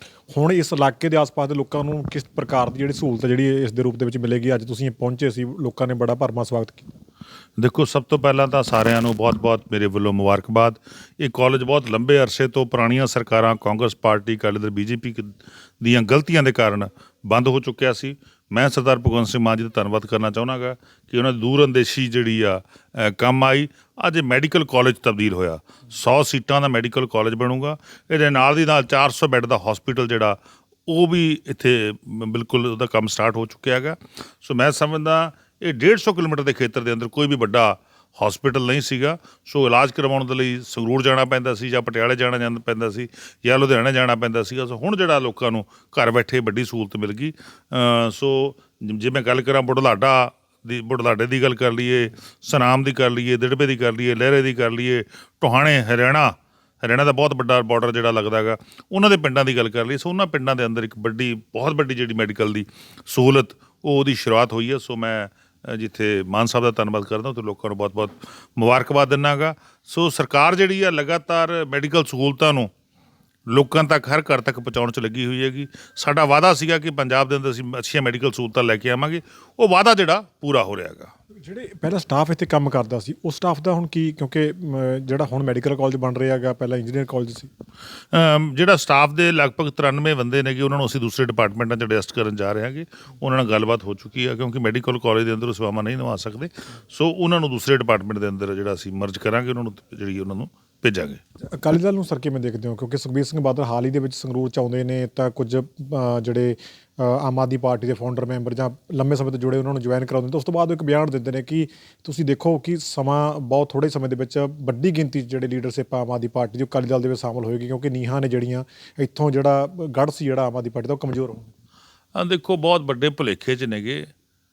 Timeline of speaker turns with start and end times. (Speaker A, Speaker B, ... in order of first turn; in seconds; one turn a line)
Speaker A: 0.3-6.9
Speaker B: 7.6-72.7
Speaker B: 73.5-81.1
Speaker A: 81.4-87.5
Speaker B: 88.1-101.2
Speaker A: 101.5-121.5
Speaker B: 122.2-124.1